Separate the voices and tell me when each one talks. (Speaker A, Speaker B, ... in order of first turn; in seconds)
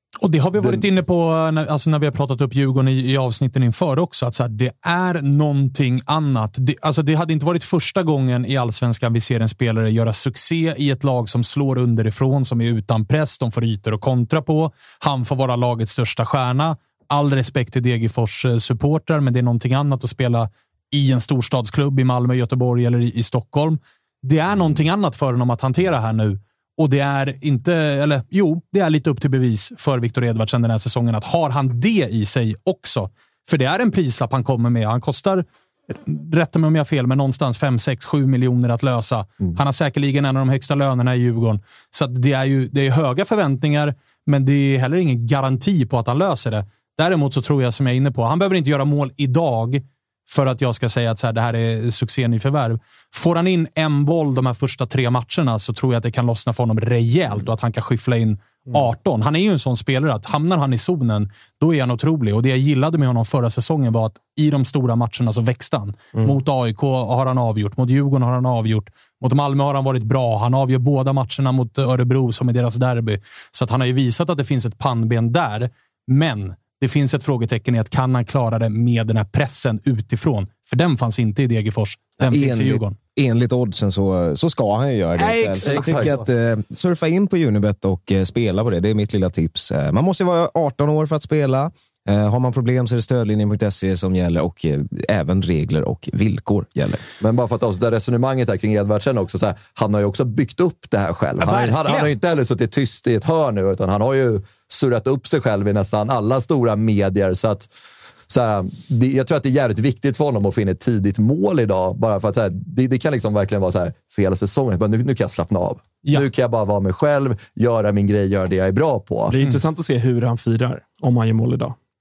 Speaker A: 0.2-83.0, 85.3-86.2
Speaker B: 0.6-0.8, 85.7-86.1, 97.2-107.7, 108.3-119.3
Speaker C: 82.2-97.0
Speaker D: 85.2-86.1, 101.5-102.1, 119.3-121.8